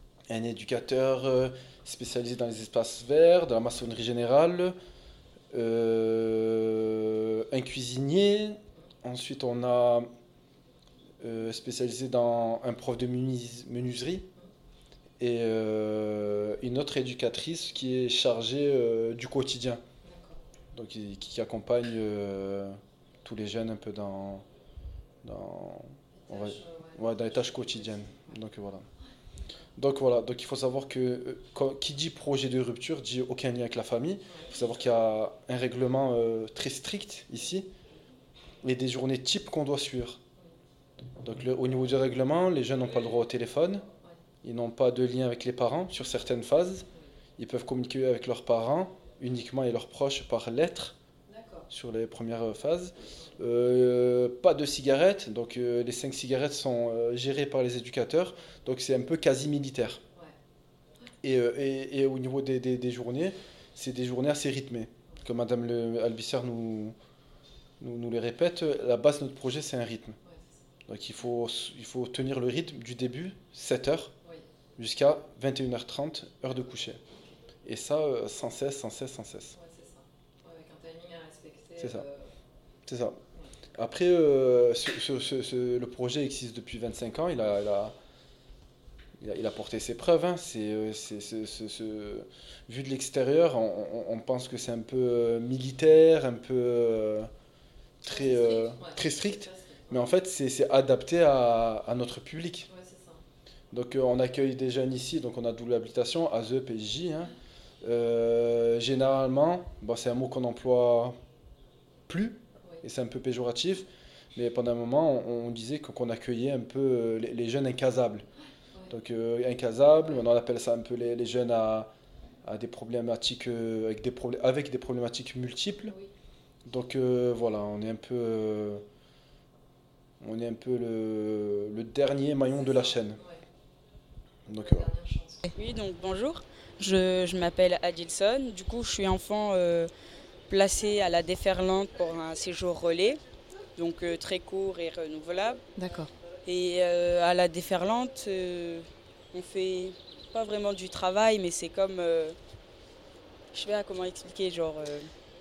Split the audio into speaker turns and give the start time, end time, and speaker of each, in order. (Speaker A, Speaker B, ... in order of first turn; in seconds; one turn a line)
Speaker A: 0.3-4.7
Speaker A: 5.5-10.1
Speaker A: 11.2-14.3
Speaker A: 15.2-19.8
Speaker B: 20.0-20.4
Speaker A: 20.7-24.4
Speaker A: 25.2-28.9
Speaker B: 26.2-27.8
Speaker A: 29.8-37.7
Speaker A: 38.6-40.2
Speaker A: 41.2-43.9
Speaker A: 44.4-46.9
Speaker A: 47.4-50.9
Speaker B: 51.3-51.6
Speaker A: 51.7-60.0
Speaker A: 61.2-66.9
Speaker A: 67.8-70.2
Speaker A: 70.9-74.1
Speaker A: 74.8-77.0
Speaker A: 77.6-79.6
Speaker B: 79.5-82.3
Speaker A: 81.8-82.0
Speaker A: 82.8-83.2
Speaker A: 83.7-87.9
Speaker A: 89.2-97.3
Speaker A: 98.0-102.7
Speaker B: 98.1-100.0
Speaker B: 102.7-103.2
Speaker A: 103.7-107.3
Speaker A: 107.8-111.2
Speaker A: 112.1-118.2
Speaker A: 118.9-121.9
Speaker A: 122.4-125.9
Speaker A: 126.7-128.8
Speaker A: 130.2-133.2
Speaker B: 132.8-133.4
Speaker A: 134.5-134.9
Speaker B: 134.7-135.5
Speaker C: 135.5-139.9
Speaker C: 140.5-143.2
Speaker C: 143.8-145.6
Speaker B: 145.8-146.1
Speaker C: 146.4-152.3
Speaker C: 153.5-155.1